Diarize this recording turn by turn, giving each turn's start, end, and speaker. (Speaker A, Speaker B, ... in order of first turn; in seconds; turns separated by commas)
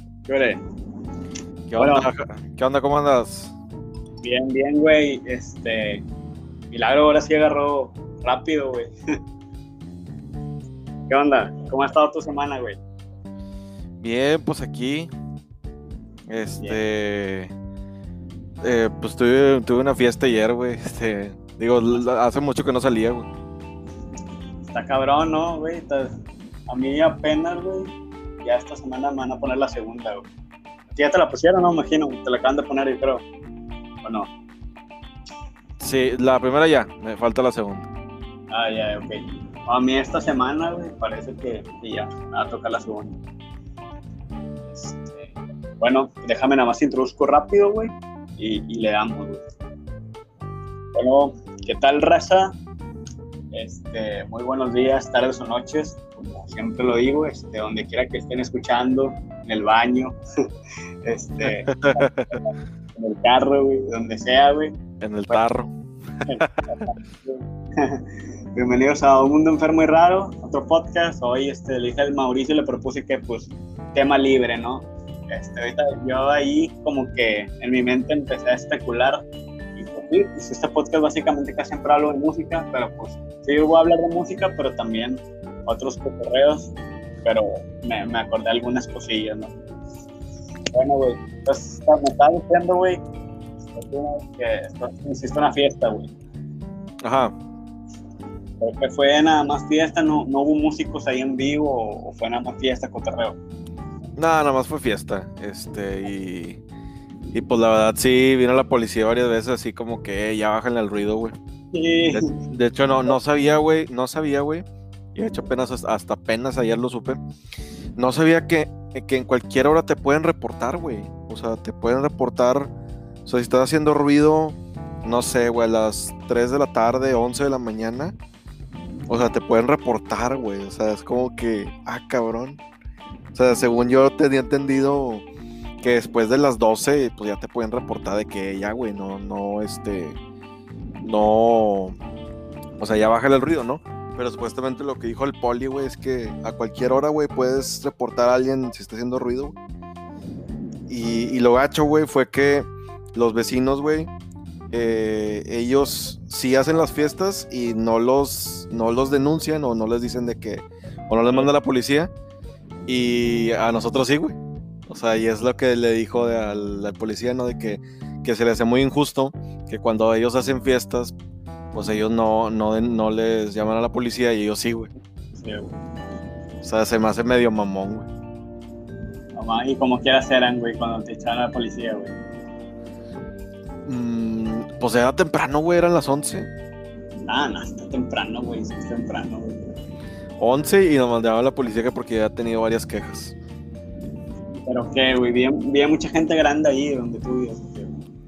Speaker A: 0.3-0.6, Speaker B: 1.7-3.5, Speaker A: 1.8-2.1, Speaker A: 4.2-6.0, Speaker A: 6.7-8.9, Speaker A: 11.1-12.8, Speaker B: 14.0-15.1, Speaker B: 16.3-17.5, Speaker B: 18.6-23.3, Speaker A: 24.7-26.2, Speaker A: 26.7-30.3, Speaker A: 30.9-33.3, Speaker A: 34.0-34.3, Speaker B: 35.8-37.9, Speaker A: 38.5-43.2, Speaker A: 44.7-49.4, Speaker A: 51.0-52.5, Speaker A: 53.5-60.2, Speaker A: 61.0-64.8, Speaker B: 61.4-62.4, Speaker B: 65.0-65.7, Speaker A: 66.3-79.2, Speaker B: 66.4-66.9, Speaker A: 79.8-86.7, Speaker A: 87.2-89.5, Speaker A: 90.7-93.0, Speaker A: 93.7-96.2, Speaker B: 97.0-97.3, Speaker A: 98.6-103.4, Speaker B: 104.2-106.6, Speaker B: 107.3-111.4, Speaker A: 111.7-112.3, Speaker B: 112.1-114.6, Speaker B: 115.2-117.2, Speaker B: 118.0-122.7, Speaker B: 123.3-128.2, Speaker B: 129.1-132.6, Speaker B: 133.3-135.3, Speaker B: 135.8-140.2, Speaker B: 141.0-141.9, Speaker B: 142.8-149.6, Speaker B: 150.9-154.1, Speaker B: 154.7-162.1, Speaker B: 162.9-164.4, Speaker B: 164.9-171.2, Speaker B: 171.7-174.9, Speaker A: 175.4-175.7, Speaker B: 176.6-178.1, Speaker A: 179.4-182.1, Speaker B: 183.9-186.5, Speaker A: 187.3-189.7, Speaker B: 190.4-193.3, Speaker A: 194.6-198.0